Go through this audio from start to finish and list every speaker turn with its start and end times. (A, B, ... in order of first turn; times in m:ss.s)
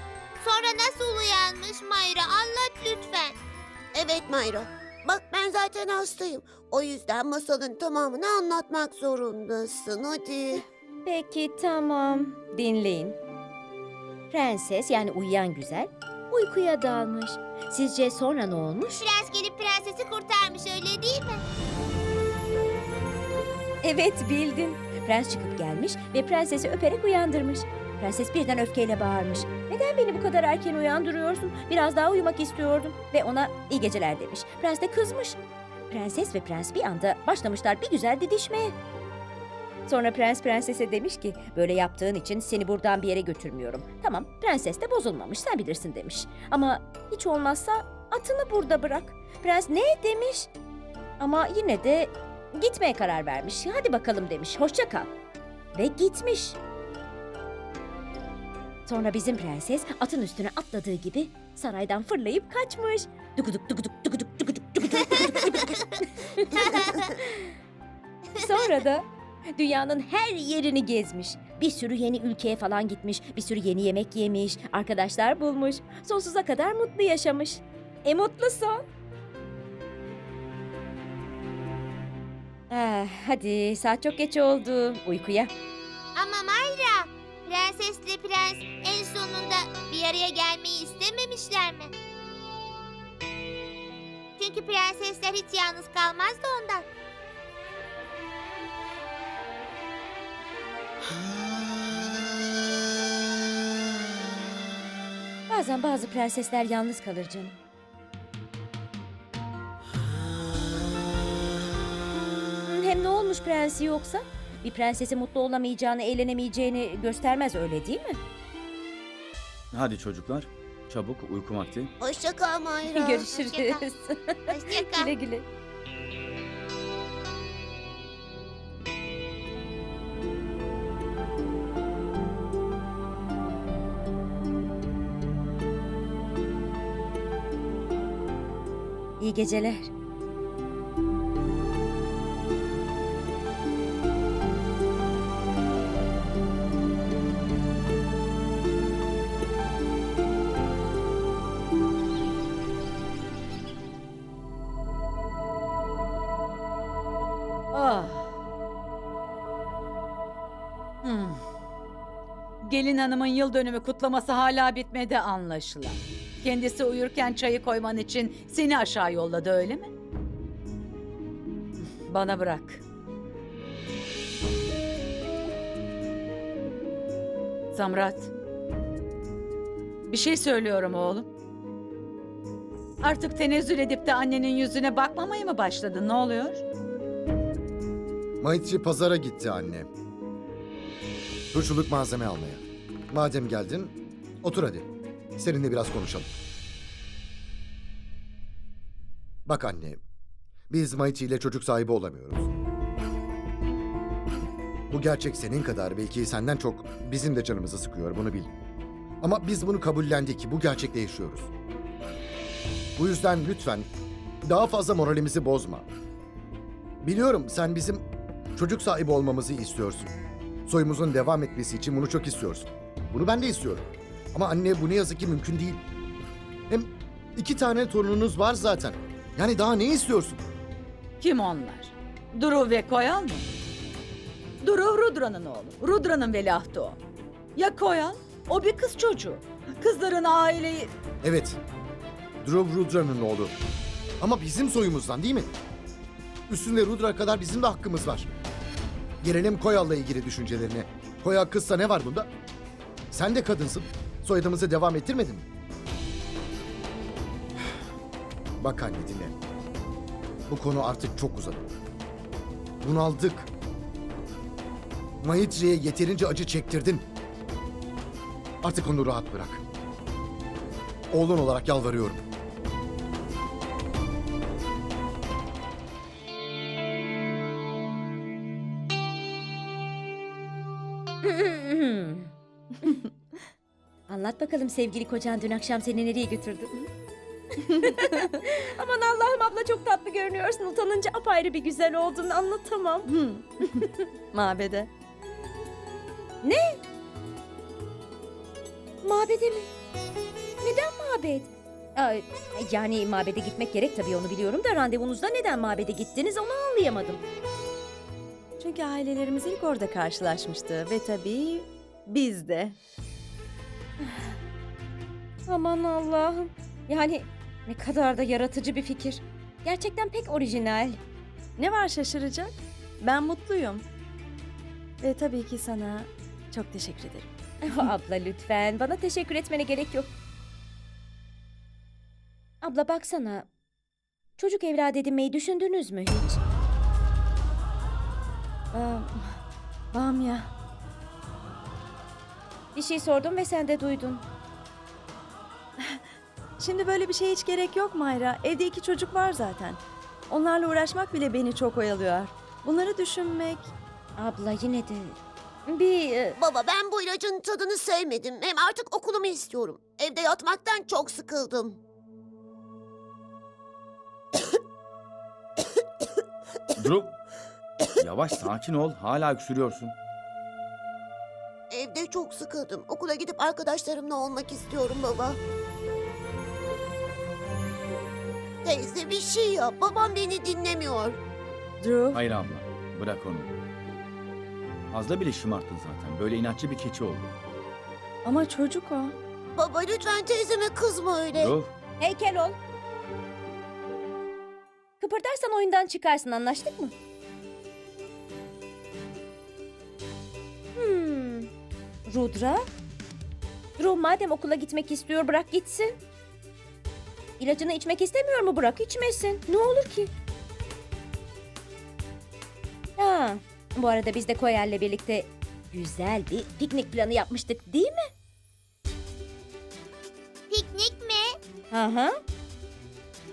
0:00.4-0:03.4 A
0:03.9-0:10.6 B
0:10.6-0:13.2 C
0:14.3-0:19.0 C
0:18.9-0:21.4 A
0:23.8-0:38.8 C
0:39.8-0:50.5 C
0:51.2-0:55.1 C
0:55.7-0:56.6 C
0:58.8-1:07.5 C
1:08.4-1:18.8 C
1:22.7-1:25.5 C
1:26.1-1:31.9 A
1:34.4-1:36.8 A
1:45.5-1:47.6 C
1:52.6-1:58.2 C
1:59.7-2:01.9 D
2:02.0-2:03.3 B
2:02.9-2:05.4 C
2:03.3-2:03.8 A
2:04.5-2:05.1 A
2:19.2-2:19.9 C
2:37.7-2:38.3 E
2:41.0-2:41.4 E
2:42.6-2:49.9 E
2:52.0-2:52.8 E
2:57.7-2:58.3 E
3:00.0-3:01.3 E
3:03.0-3:06.6 E
3:08.4-3:09.9 F
3:11.5-3:16.3 F
3:19.4-3:20.0 F
3:20.7-3:22.5 F
3:24.9-3:28.5 F
3:29.2-3:31.5 F
3:33.0-3:33.9 F
3:34.4-3:35.9 F
3:37.0-3:38.0 F
3:38.6-3:40.1 F
3:40.6-3:45.8 F
3:46.7-3:50.4 F
3:51.2-3:53.5 E
3:54.6-3:57.0 E
3:57.6-4:00.9 E
4:01.2-4:01.6 F
4:02.4-4:03.6 F
4:04.2-4:05.5 F
4:06.5-4:08.3 F
4:09.2-4:12.3 F
4:13.1-4:15.4 F
4:18.6-4:19.4 F
4:20.5-4:21.6 F
4:22.8-4:23.5 F
4:25.2-4:27.1 F
4:28.6-4:29.6 F
4:31.1-4:32.2 F
4:41.2-4:42.3 C
4:44.1-4:46.8 C
4:47.7-4:48.2 G
4:47.8-4:53.1 C
4:53.1-4:54.9 G
4:56.4-4:56.8 C
4:59.0-4:59.7 C
5:00.6-5:07.2 C
5:08.6-5:12.8 G
5:15.5-5:21.0 C
5:21.6-5:23.8 G
5:25.0-5:27.8 G
5:27.6-5:30.1 C
5:32.6-5:33.5 C
5:34.4-5:36.4 C
5:38.7-5:39.4 G
5:39.9-5:40.5 G
5:42.7-5:44.2 C
5:45.8-5:46.0 G
5:46.6-5:53.7 G
5:54.2-5:56.4 C
5:56.4-6:01.8 B
6:06.8-6:07.1 D
6:08.0-6:10.0 D
6:11.7-6:15.4 B
6:18.6-6:21.2 B
6:21.8-6:22.2 G
6:22.1-6:23.6 D
6:24.9-6:27.3 D
6:28.2-6:29.2 G
6:29.6-6:31.5 B
6:31.4-6:31.7 D
6:32.0-6:32.6 C
6:35.0-6:36.9 C
6:40.7-6:41.5 C
6:42.1-6:42.6 C
6:43.8-6:46.0 C
6:47.4-6:50.1 C
6:53.0-6:58.1 C
7:00.5-7:01.3 A
7:01.7-7:02.2 C